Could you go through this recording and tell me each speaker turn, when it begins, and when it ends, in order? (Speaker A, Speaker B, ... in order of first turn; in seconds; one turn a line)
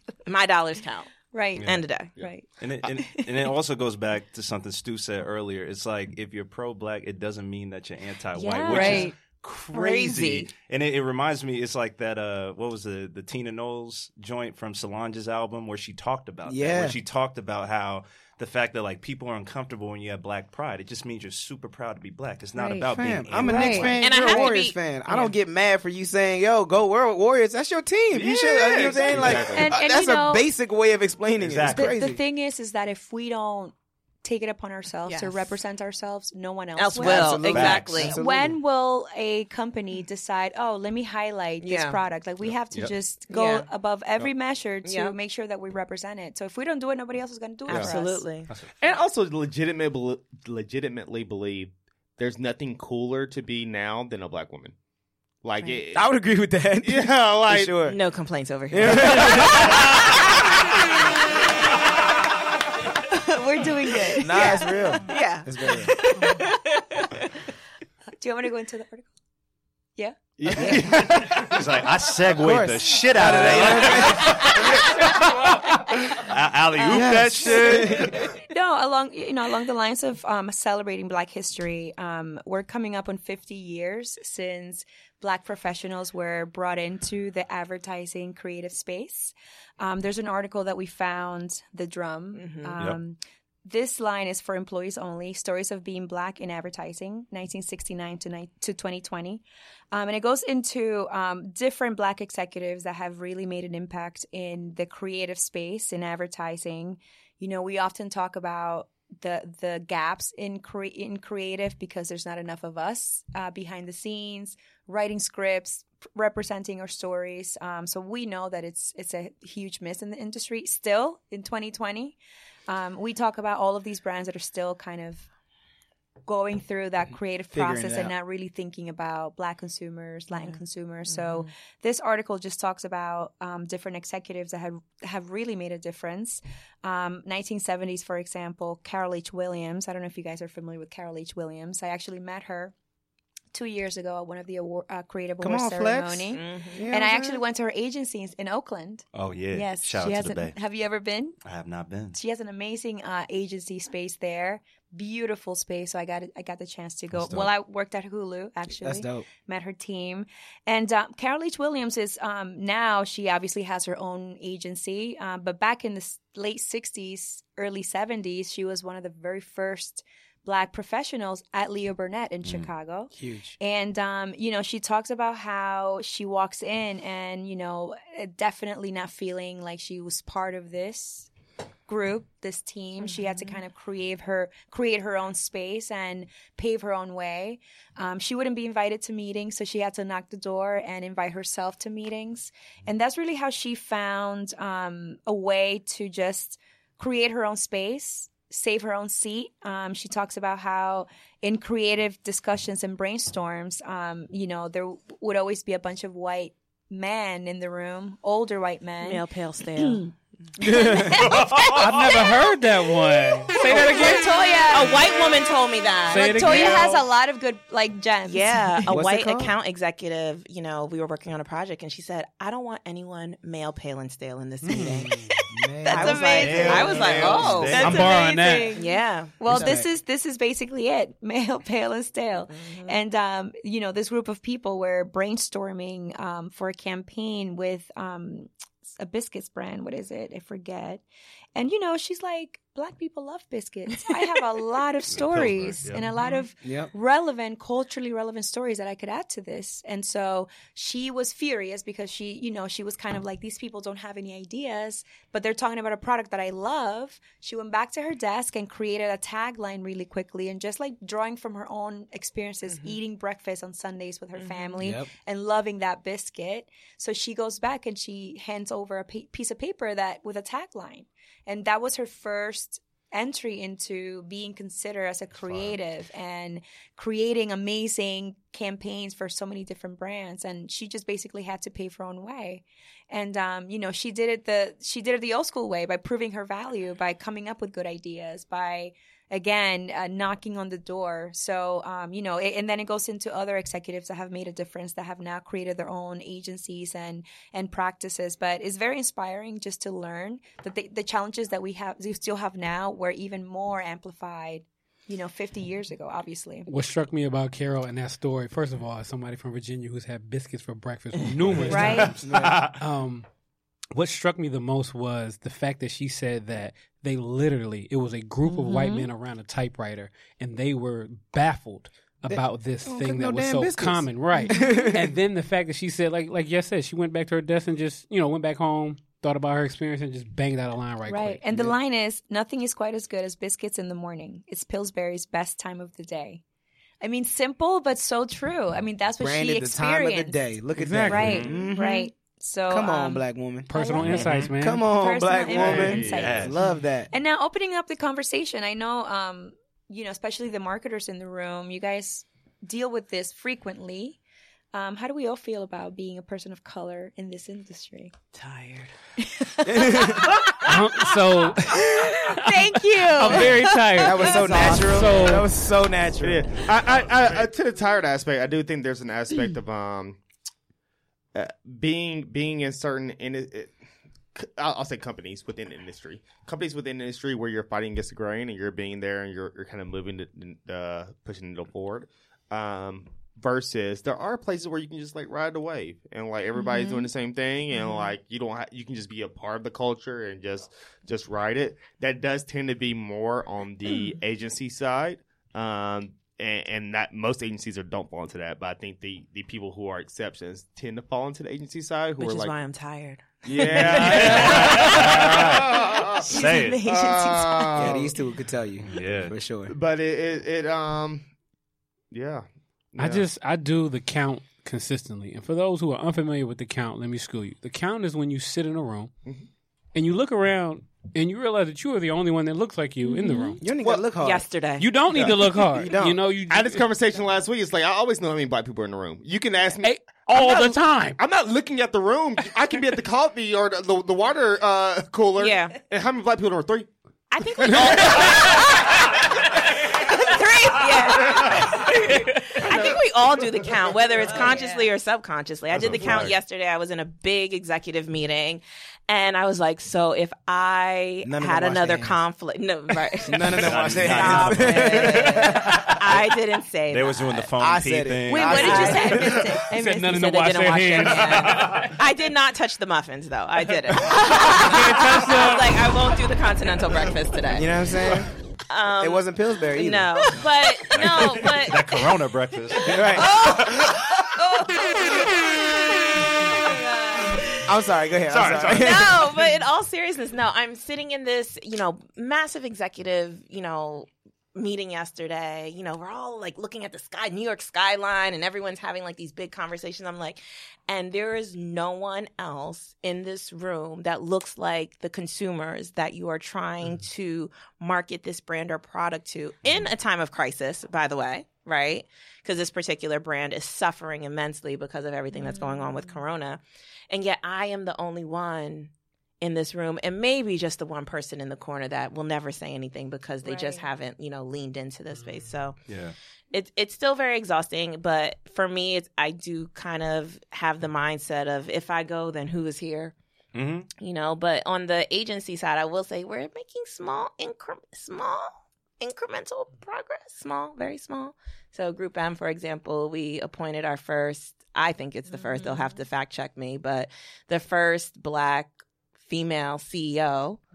Speaker A: 0.2-1.1
Speaker B: 1.3-2.5
Speaker A: 1.6-2.1
Speaker C: 2.6-24.0
Speaker A: 8.4-9.1
Speaker B: 8.4-9.1
Speaker A: 9.7-10.5
Speaker D: 16.4-17.0
Speaker B: 22.6-22.9
Speaker D: 22.8-32.2
Speaker B: 23.4-24.5
Speaker A: 23.9-25.3
Speaker C: 28.1-29.6
Speaker E: 29.1-29.6
Speaker B: 29.4-30.4
Speaker C: 31.4-32.0
Speaker B: 31.7-48.2
Speaker A: 35.0-35.5
Speaker A: 36.8-38.2
Speaker D: 37.0-38.5
Speaker C: 37.5-38.1
Speaker A: 41.6-42.0
Speaker A: 43.3-43.7
Speaker A: 44.8-45.1
Speaker A: 47.7-48.5
Speaker E: 48.8-54.7
Speaker E: 55.4-56.0
Speaker D: 55.9-58.0
Speaker E: 56.8-57.8
Speaker A: 57.8-60.2
Speaker D: 58.7-60.0
Speaker B: 63.1-64.7
Speaker D: 64.2-66.0
Speaker A: 64.4-67.3
Speaker B: 68.2-69.1
Speaker C: 70.4-78.3
Speaker D: 70.5-71.4
Speaker E: 71.0-71.4
Speaker D: 72.4-74.8
Speaker B: 76.8-77.8
Speaker D: 76.9-78.2
Speaker B: 78.5-122.2
Speaker A: 92.3-92.8
Speaker B: 122.7-125.3
Speaker B: 126.3-142.7
Speaker D: 127.5-128.1
Speaker A: 130.3-131.5
Speaker B: 143.5-151.3
Speaker D: 145.4-147.4
Speaker A: 146.3-146.8
Speaker C: 149.1-150.6
Speaker C: 151.4-152.2
Speaker B: 152.1-181.3
Speaker C: 157.2-157.5
Speaker D: 158.8-159.2
Speaker D: 173.1-173.6
Speaker B: 181.9-209.2
Speaker A: 183.0-183.6
Speaker A: 209.0-210.1
Speaker B: 209.8-210.1
Speaker D: 210.6-211.2
Speaker B: 210.7-211.5
Speaker C: 211.4-211.7
Speaker F: 211.5-214.8
Speaker B: 213.7-215.0
Speaker A: 213.7-214.2
Speaker A: 214.7-216.8
Speaker F: 216.1-217.0
Speaker B: 216.1-218.8
Speaker A: 218.3-229.7
Speaker D: 218.9-219.5
Speaker F: 224.6-225.3
Speaker D: 224.7-227.8
Speaker B: 225.8-241.0
Speaker C: 226.4-228.1
Speaker F: 227.7-228.8
Speaker D: 229.5-229.9
Speaker A: 232.5-233.0
Speaker B: 241.5-306.7
Speaker C: 245.1-246.1
Speaker D: 246.6-246.9
Speaker A: 262.7-263.0
Speaker A: 264.3-264.8
Speaker D: 264.8-265.1
Speaker F: 306.6-313.2
Speaker C: 311.4-312.8
Speaker B: 311.6-312.1
Speaker D: 312.2-312.6
Speaker F: 313.9-331.4
Speaker B: 318.5-319.1
Speaker D: 322.2-325.1
Speaker B: 324.3-324.6
Speaker B: 331.1-336.4
Speaker B: 337.0-340.4
Speaker D: 339.2-342.0
Speaker F: 340.8-341.4
Speaker C: 340.9-341.6
Speaker B: 341.1-344.3
Speaker D: 342.7-343.7
Speaker F: 343.7-344.9
Speaker C: 344.0-344.5
Speaker D: 344.3-347.1
Speaker B: 344.8-346.5
Speaker E: 345.5-346.5
Speaker C: 345.8-346.6
Speaker B: 347.1-354.2
Speaker B: 354.7-358.1
Speaker A: 358.3-358.9
Speaker B: 359.3-360.4
Speaker D: 359.6-360.3
Speaker F: 360.5-365.5
Speaker B: 361.7-364.7
Speaker A: 363.2-363.8
Speaker D: 364.0-366.5
Speaker E: 366.2-370.2
Speaker E: 371.3-373.7
Speaker E: 374.3-402.5
Speaker A: 387.7-388.1
Speaker A: 402.2-405.0
Speaker D: 403.4-404.9
Speaker E: 403.5-408.1
Speaker C: 403.9-405.7
Speaker C: 406.3-406.8
Speaker A: 406.3-407.8
Speaker D: 407.8-409.7
Speaker C: 408.8-409.3
Speaker E: 409.7-411.2
Speaker E: 412.1-413.3
Speaker F: 413.0-419.1
Speaker F: 419.9-423.7
Speaker B: 423.1-423.5
Speaker D: 423.6-424.4
Speaker A: 424.1-424.9
Speaker F: 424.8-426.9
Speaker D: 425.1-426.2
Speaker E: 425.1-425.5
Speaker E: 426.5-436.9
Speaker F: 429.8-431.2
Speaker A: 435.4-435.8
Speaker A: 437.3-439.3
Speaker F: 437.6-438.5
Speaker E: 437.7-438.3
Speaker A: 439.8-457.4
Speaker F: 442.2-442.6
Speaker B: 444.3-444.9
Speaker C: 445.7-446.4
Speaker D: 451.2-452.2
Speaker D: 453.2-455.9
Speaker C: 453.4-456.3
Speaker C: 456.9-459.0
Speaker D: 457.6-459.5
Speaker A: 458.3-467.7
Speaker B: 458.3-459.6
Speaker F: 459.6-461.9
Speaker F: 464.1-465.8
Speaker D: 467.5-468.3
Speaker A: 468.7-471.9
Speaker D: 469.0-470.4
Speaker C: 470.9-474.1
Speaker D: 472.8-473.4
Speaker A: 473.0-477.6
Speaker D: 477.6-479.3
Speaker C: 478.3-479.3
Speaker A: 478.6-515.8
Speaker B: 505.3-506.1
Speaker B: 513.4-513.9
Speaker C: 515.9-516.1
Speaker A: 516.5-523.1
Speaker C: 523.5-523.9
Speaker A: 524.0-540.6